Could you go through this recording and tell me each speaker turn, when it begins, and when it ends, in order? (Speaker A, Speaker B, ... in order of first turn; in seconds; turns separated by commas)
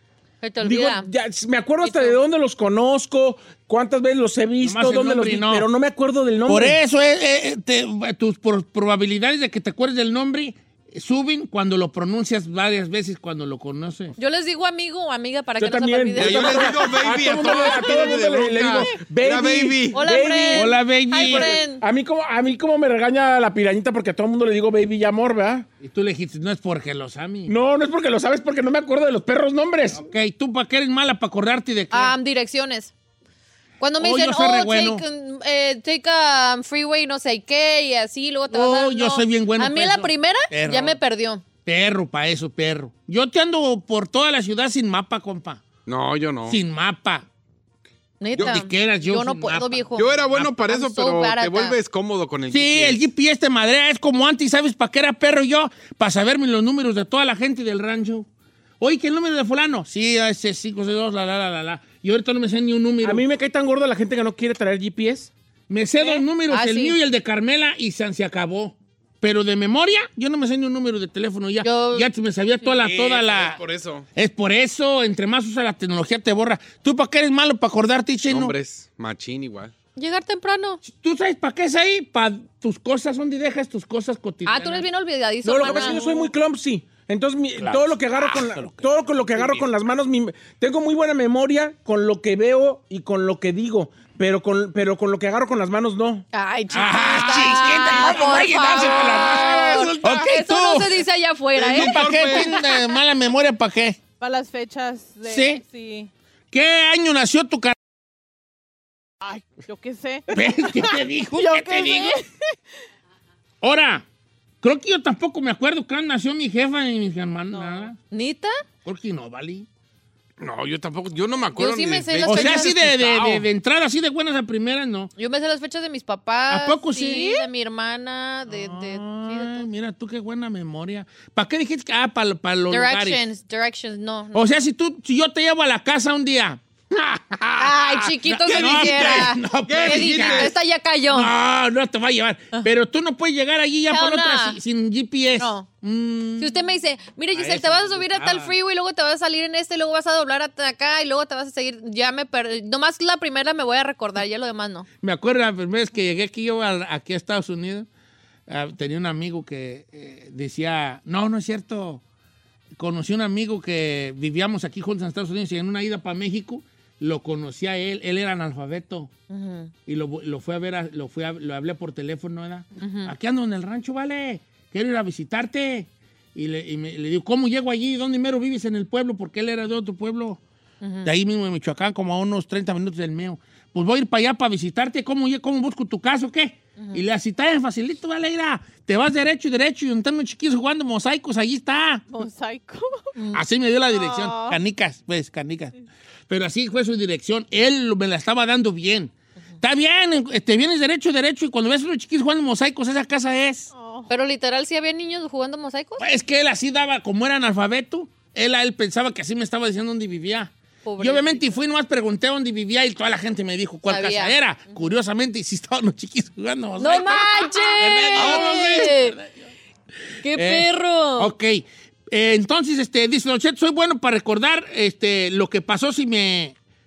Speaker A: 0.4-1.1, Speaker B: 0.6-6.8, Speaker A: 1.8-2.2, Speaker C: 4.6-5.7, Speaker C: 6.5-14.2, Speaker A: 14.2-17.0, Speaker B: 15.6-25.6, Speaker D: 16.1-20.0, Speaker A: 19.9-21.8, Speaker C: 20.5-21.5, Speaker C: 25.8-27.5, Speaker B: 27.5-30.0, Speaker C: 30.0-32.1, Speaker A: 31.9-32.9, Speaker A: 33.8-41.4, Speaker C: 34.0-35.0, Speaker C: 38.5-41.0, Speaker C: 41.6-45.6, Speaker D: 45.9-46.6, Speaker C: 46.5-47.3, Speaker A: 48.2-51.8, Speaker D: 48.4-48.6, Speaker C: 48.4-50.5, Speaker D: 49.9-53.0, Speaker C: 52.5-58.2, Speaker C: 58.8-63.2, Speaker B: 63.0-65.3, Speaker C: 65.7-73.6, Speaker A: 66.0-67.0, Speaker A: 71.6-72.1, Speaker D: 72.8-74.0, Speaker C: 74.2-78.5, Speaker D: 78.3-79.7, Speaker A: 80.0-80.8, Speaker C: 80.8-84.9, Speaker A: 84.5-86.2, Speaker B: 85.4-96.2, Speaker C: 87.6-89.7, Speaker A: 96.3-102.4, Speaker C: 96.7-100.9, Speaker D: 98.8-100.3, Speaker D: 101.5-102.6, Speaker C: 101.7-104.0, Speaker E: 104.2-106.1, Speaker C: 105.2-105.6, Speaker C: 106.5-107.7, Speaker E: 109.2-112.3, Speaker C: 110.3-112.2, Speaker C: 113.6-114.0, Speaker C: 114.6-118.0, Speaker E: 117.5-117.9, Speaker A: 118.1-118.5, Speaker C: 118.8-119.7, Speaker D: 120.4-123.5, Speaker A: 121.5-123.0, Speaker C: 122.2-125.1, Speaker A: 125.2-129.7, Speaker C: 126.5-127.4, Speaker C: 128.5-133.2, Speaker A: 132.7-134.5, Speaker C: 134.3-136.6, Speaker D: 137.1-137.6, Speaker A: 137.6-141.3, Speaker D: 138.2-140.6, Speaker C: 138.3-140.5, Speaker C: 141.1-146.6, Speaker A: 143.9-144.6, Speaker A: 145.4-145.7, Speaker A: 146.4-154.9, Speaker C: 147.3-148.5, Speaker C: 155.0-157.9, Speaker C: 158.5-162.0, Speaker C: 162.8-169.1, Speaker A: 169.3-169.7, Speaker C: 169.8-180.4, Speaker A: 172.8-173.1, Speaker A: 180.8-181.1, Speaker C: 181.0-192.0, Speaker E: 192.1-193.1, Speaker A: 193.2-193.4, Speaker C: 193.3-195.7, Speaker E: 193.9-194.6, Speaker C: 196.3-203.7, Speaker E: 203.7-204.1, Speaker A: 204.1-206.0, Speaker C: 206.0-219.4, Speaker A: 210.8-211.4, Speaker A: 213.9-214.7, Speaker A: 216.8-219.2, Speaker A: 220.2-221.3, Speaker C: 220.3-226.5